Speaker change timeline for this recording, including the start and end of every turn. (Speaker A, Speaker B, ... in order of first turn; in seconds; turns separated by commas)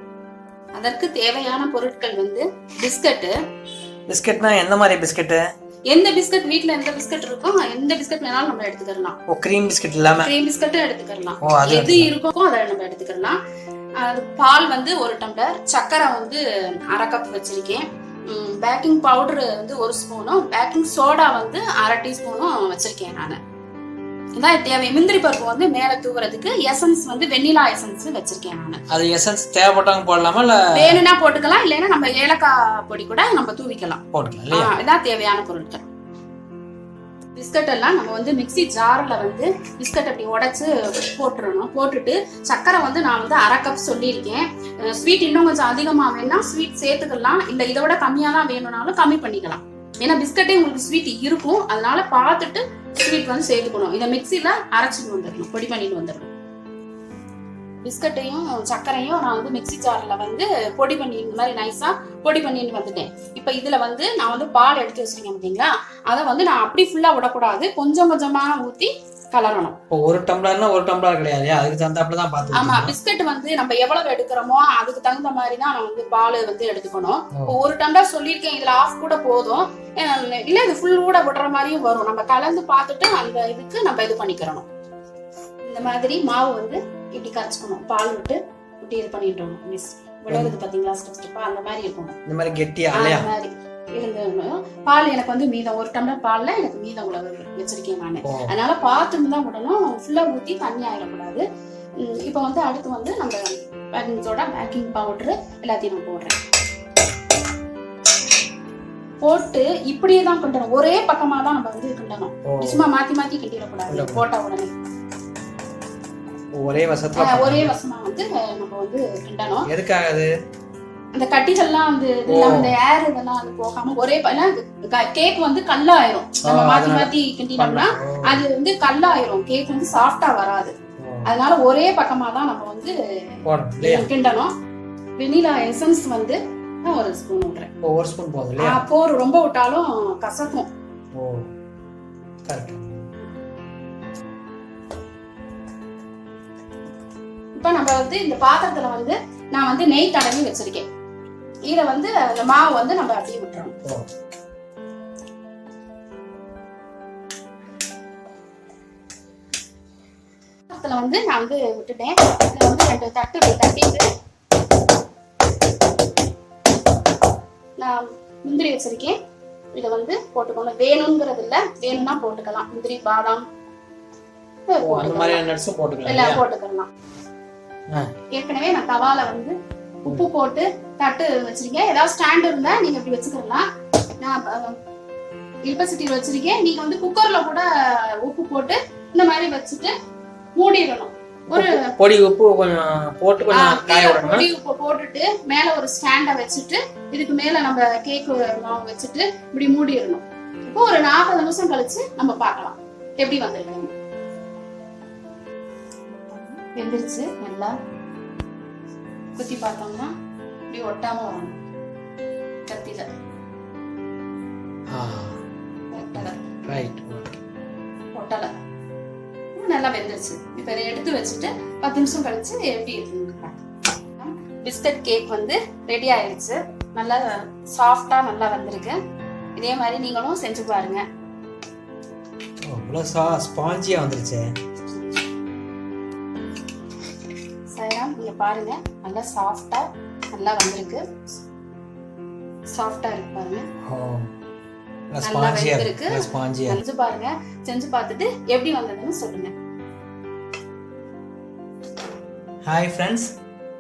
Speaker A: 0.8-3.3, Speaker B: 4.1-5.4, Speaker A: 5.9-9.2, Speaker B: 9.3-10.3, Speaker A: 10.2-13.4, Speaker B: 11.4-12.1, Speaker A: 14.0-23.4, Speaker A: 24.4-28.8, Speaker B: 28.9-31.0, Speaker A: 30.7-35.9, Speaker B: 34.1-34.7, Speaker A: 37.3-56.3, Speaker A: 57.8-69.8, Speaker B: 69.9-72.9, Speaker A: 72.5-84.6, Speaker A: 85.7-92.2, Speaker B: 92.2-93.3, Speaker A: 92.9-101.4, Speaker B: 98.2-98.5, Speaker A: 102.0-106.4, Speaker A: 109.2-114.7, Speaker B: 112.4-112.8, Speaker B: 113.9-114.2, Speaker B: 116.5-117.7, Speaker A: 117.2-119.7, Speaker B: 119.6-120.3, Speaker A: 121.1-130.7, Speaker B: 122.3-122.7, Speaker B: 126.4-128.4, Speaker B: 131.0-131.3, Speaker A: 131.2-132.9, Speaker B: 133.4-134.1, Speaker A: 133.8-134.5, Speaker A: 135.2-137.7, Speaker B: 137.8-138.8, Speaker A: 138.6-140.7, Speaker B: 141.2-141.5, Speaker B: 142.4-143.1, Speaker A: 147.6-150.8, Speaker A: 151.7-153.7, Speaker A: 160.7-164.1, Speaker A: 167.8-169.1, Speaker A: 169.7-173.4, Speaker A: 174.7-175.4, Speaker B: 174.8-176.4, Speaker A: 176.0-176.9, Speaker A: 178.3-179.5, Speaker A: 180.0-183.6, Speaker A: 184.2-184.8, Speaker A: 185.7-187.7, Speaker A: 188.2-189.9, Speaker A: 190.6-191.8, Speaker B: 191.5-194.5, Speaker A: 193.5-203.9, Speaker A: 206.3-207.7, Speaker A: 209.3-210.1, Speaker A: 210.7-211.6, Speaker A: 212.7-213.1, Speaker B: 214.9-215.4, Speaker A: 215.9-216.6, Speaker B: 216.2-217.4, Speaker A: 218.1-218.5, Speaker A: 219.5-223.6, Speaker A: 224.2-229.0, Speaker A: 229.6-231.0, Speaker B: 232.7-234.5, Speaker A: 237.7-241.3, Speaker A: 242.7-243.7, Speaker B: 243.8-244.3, Speaker B: 245.1-246.8, Speaker A: 245.2-249.5, Speaker B: 252.6-253.4